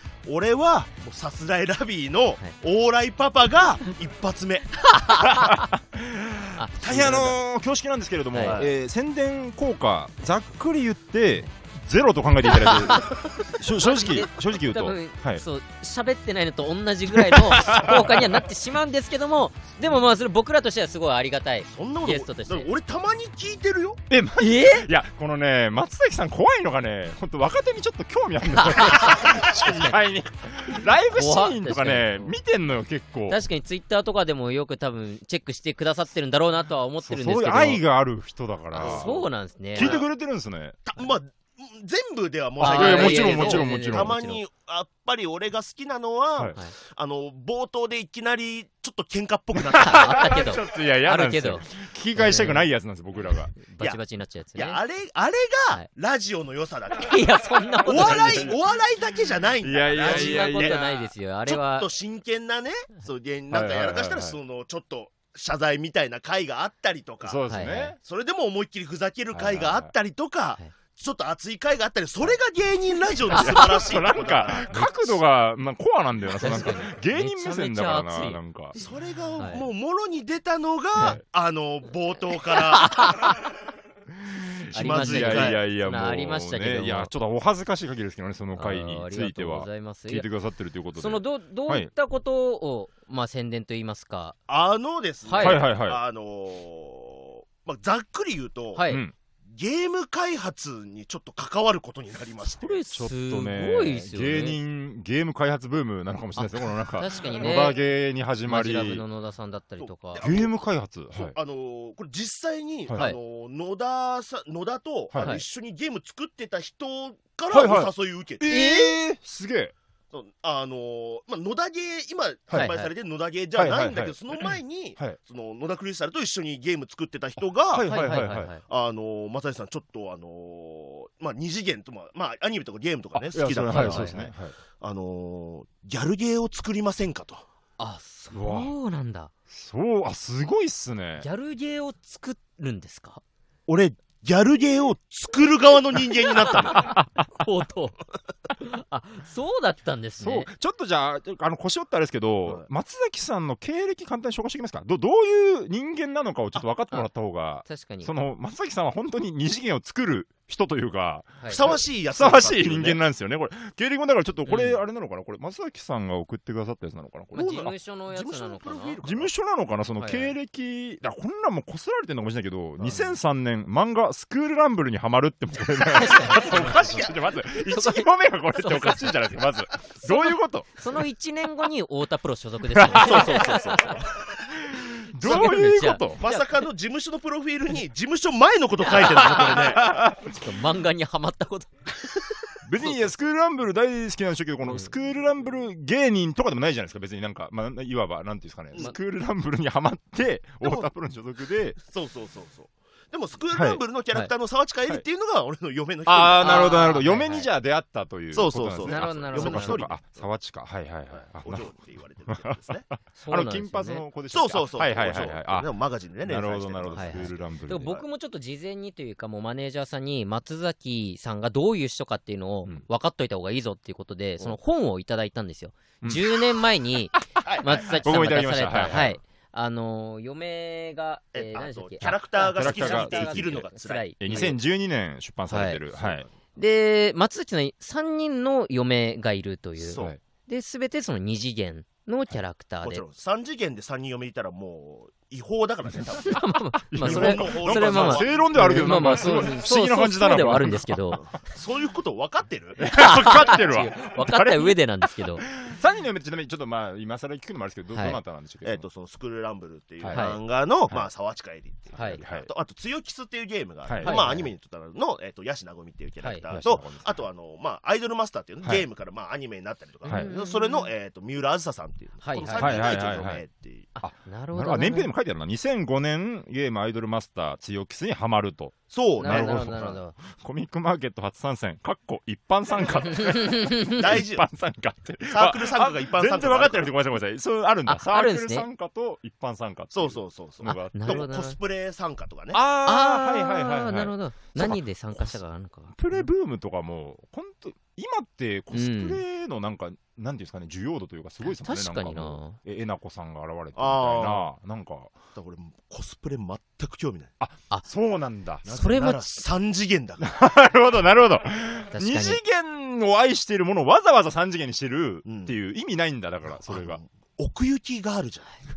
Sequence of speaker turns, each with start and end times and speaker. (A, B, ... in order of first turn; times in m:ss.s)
0:00.3-0:04.9 A
0:04.9-0:05.7 B
0:05.2-0:15.4 C
0:06.6-0:07.4 B
0:06.8-0:07.3 A
0:08.3-0:08.6 B
0:08.4-0:08.7 A
0:12.5-0:22.7 B
0:17.1-0:18.4 C
0:21.7-0:24.0 A
0:24.1-0:33.4 C
0:24.4-0:24.8 B
0:28.6-0:30.0 B
0:31.1-0:32.4 B
0:33.3-0:37.8 B
0:37.0-0:39.2 C
0:38.7-0:40.0 B
0:38.8-0:40.1 A
0:39.7-0:40.8 C
0:40.9-0:50.5 A
0:42.6-0:44.4 B
0:42.6-0:44.1 C
0:49.6-0:53.6 C
0:49.8-0:52.6 B
0:53.2-0:54.8 B
0:54.6-0:57.2 A
0:57.0-0:58.5 B
0:57.8-0:58.6 C
0:57.8-1:00.8 A
0:59.6-1:01.1 C
1:00.0-1:01.9 B
1:01.5-1:07.4 A
1:03.5-1:04.4 C
1:07.2-1:08.0 C
1:07.5-1:08.0 B
1:08.0-1:14.7 A
1:09.3-1:09.9 C
1:13.3-1:18.8 C
1:14.7-1:15.0 B
1:16.4-1:19.7 B
1:18.8-1:23.1 A
1:21.0-1:21.2 C
1:22.5-1:23.5 B
1:24.2-1:31.9 C
1:24.7-1:25.6 A
1:24.7-1:27.1 B
1:28.6-1:30.3 B
1:31.0-1:34.4 B
1:34.5-1:38.8 A
1:35.2-1:35.6 B
1:35.4-1:36.0 C
1:38.8-1:39.0 B
1:38.9-1:39.1 C
1:39.5-1:42.8 A
1:42.5-1:44.6 B
1:42.9-1:49.0 C
1:46.4-1:47.8 B
1:48.5-1:50.3 B
1:49.8-1:50.6 A
1:50.2-1:51.4 C
1:51.2-1:59.0 A
1:55.2-1:55.4 B
1:57.5-1:59.7 C
2:00.1-2:14.3 A
2:02.5-2:02.9 B
2:03.6-2:05.2 C
2:07.4-2:08.5 C
2:07.8-2:08.6 B
2:13.1-2:14.5 C
2:13.7-2:14.3 B
2:14.8-2:17.4 A
2:17.8-2:19.3 B
2:18.3-2:18.7 C
2:19.5-2:21.3 C
2:21.2-2:23.2 B
2:23.7-2:26.9 A
2:26.4-2:28.0 B
2:26.6-2:27.2 C
2:28.6-2:30.5 B
2:30.2-2:47.7 C
2:37.6-2:38.1 B
2:41.4-2:41.7 B
2:41.5-2:43.0 A
2:44.5-2:44.8 B
2:47.3-2:49.0 B
2:47.4-2:49.3 A
2:49.0-3:00.7 C
2:50.0-2:50.3 B
2:56.0-2:59.2 B
2:56.6-2:57.0 A
3:00.0-3:04.0 B
3:02.8-3:03.8 C
3:02.9-3:04.3 A
3:04.6-3:06.2 C
3:05.2-3:06.5 B
3:06.2-3:09.9 A
3:09.0-3:13.0 B
3:09.3-3:10.4 C
3:12.6-3:21.8 C
3:20.6-3:20.9 A
3:21.8-3:26.6 A
3:23.5-3:23.8 C
3:26.1-3:31.7 C
3:26.4-3:27.5 B
3:28.3-3:30.3 A
3:28.9-3:29.9 B
3:31.1-3:32.9 A
3:32.3-3:35.7 C
3:33.2-3:34.0 B
3:34.3-3:38.0 A
3:36.2-3:38.0 C
3:37.0-3:54.6 B
3:46.0-3:46.6 C
3:47.4-3:48.0 A
3:47.9-3:49.2 C
3:51.4-3:54.4 A
3:52.6-3:53.6 C
3:54.2-3:56.2 C
3:55.5-3:55.8 B
3:55.9-3:56.4 A
3:56.6-4:03.0 B
3:59.8-4:00.1 A
4:02.8-4:06.4 A
4:06.2-4:11.2 B
4:06.9-4:11.2 C
4:07.0-4:08.5 A
4:11.2-4:13.0 A
4:12.8-4:14.8 C
4:12.8-4:15.5 B
4:15.4-4:18.9 C
4:17.9-4:18.2 B
4:18.6-4:33.9 A
4:20.0-4:20.3 C
4:20.1-4:20.4 B
4:22.0-4:22.2 B
4:22.0-4:22.5 C
4:23.9-4:24.2 C
4:24.0-4:24.5 B
4:26.5-4:27.3 C
4:30.0-4:30.9 B
4:32.2-4:33.0 B
4:32.4-4:33.4 C
4:34.0-4:35.1 B
4:34.0-4:51.3 C
4:38.9-4:40.0 A
4:39.2-4:40.2 B
4:43.1-4:44.2 B
4:44.0-4:44.5 A
4:45.3-4:46.9 A
4:47.9-4:48.7 B
4:49.9-4:52.6 A
4:50.9-4:51.6 B
4:52.5-4:55.4 C
4:52.8-4:56.0 B
4:55.9-5:05.2 C
4:58.7-4:59.2 B
5:01.4-5:02.6 B
5:03.8-5:04.5 A
5:05.4-5:07.3 A
5:07.4-5:08.6 C
5:08.6-5:10.4 A
5:08.7-5:09.3 B
5:10.2-5:17.0 C
5:11.9-5:12.4 B
5:15.2-5:15.6 A
5:16.5-5:18.6 A